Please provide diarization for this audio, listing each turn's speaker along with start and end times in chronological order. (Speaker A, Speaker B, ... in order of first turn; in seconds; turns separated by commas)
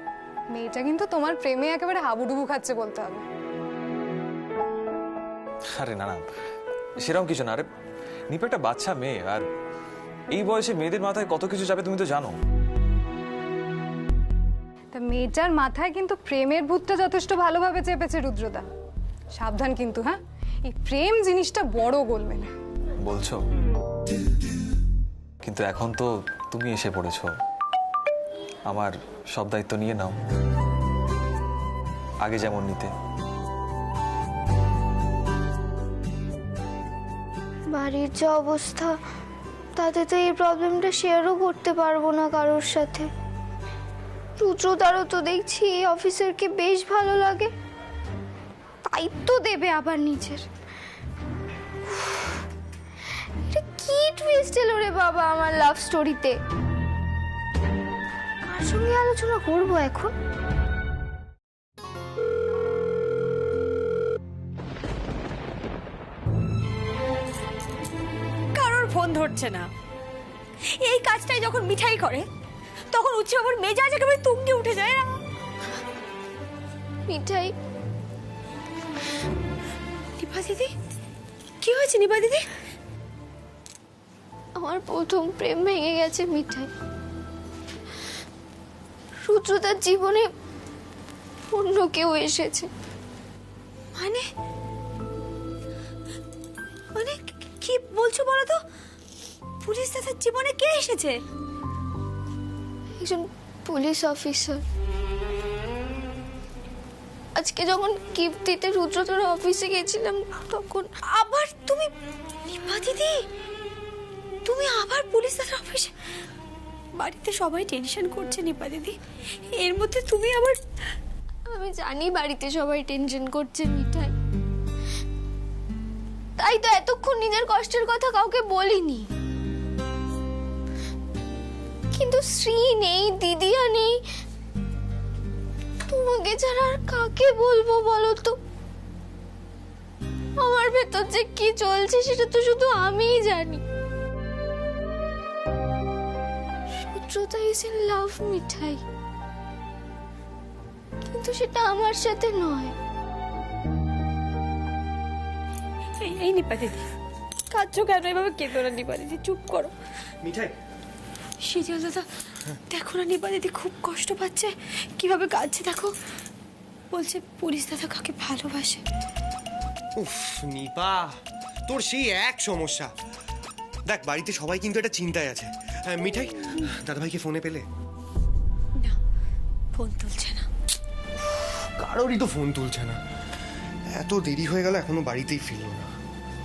Speaker A: 0.5-3.2, Speaker B: 5.7-6.3, Speaker B: 7.0-7.7, Speaker B: 8.3-9.4, Speaker B: 10.3-12.3, Speaker A: 14.9-18.6, Speaker A: 19.4-22.5, Speaker B: 23.0-23.4, Speaker B: 25.4-27.3, Speaker B: 28.7-30.2, Speaker B: 32.2-32.9, Speaker C: 37.7-38.9, Speaker C: 39.8-43.1, Speaker C: 44.4-47.5, Speaker C: 48.9-50.4, Speaker C: 51.9-52.4, Speaker C: 53.5-56.3, Speaker C: 58.5-60.1, Speaker D: 68.5-69.7, Speaker D: 70.8-72.3, Speaker D: 72.9-75.1, Speaker C: 77.1-77.5, Speaker D: 80.2-80.7, Speaker D: 81.6-82.5, Speaker C: 84.6-86.7, Speaker C: 89.2-90.3, Speaker C: 91.5-92.7, Speaker D: 94.0-94.2, Speaker D: 97.0-98.6, Speaker D: 99.6-101.2, Speaker C: 103.0-104.6, Speaker C: 107.4-110.9, Speaker D: 111.0-111.9, Speaker D: 112.5-113.2, Speaker D: 114.5-115.9, Speaker D: 117.0-119.0, Speaker D: 119.6-120.6, Speaker C: 121.5-124.1, Speaker C: 126.4-129.1, Speaker C: 131.9-133.9, Speaker C: 135.9-138.4, Speaker C: 140.4-143.6, Speaker C: 146.8-148.8, Speaker C: 151.1-152.7, Speaker D: 156.0-156.9, Speaker D: 157.5-159.7, Speaker E: 160.2-160.5, Speaker D: 161.4-162.1, Speaker D: 162.7-165.9, Speaker D: 166.9-168.8, Speaker E: 170.0-172.9, Speaker E: 173.9-177.7, Speaker D: 179.7-180.5, Speaker E: 181.4-183.0, Speaker E: 183.9-185.9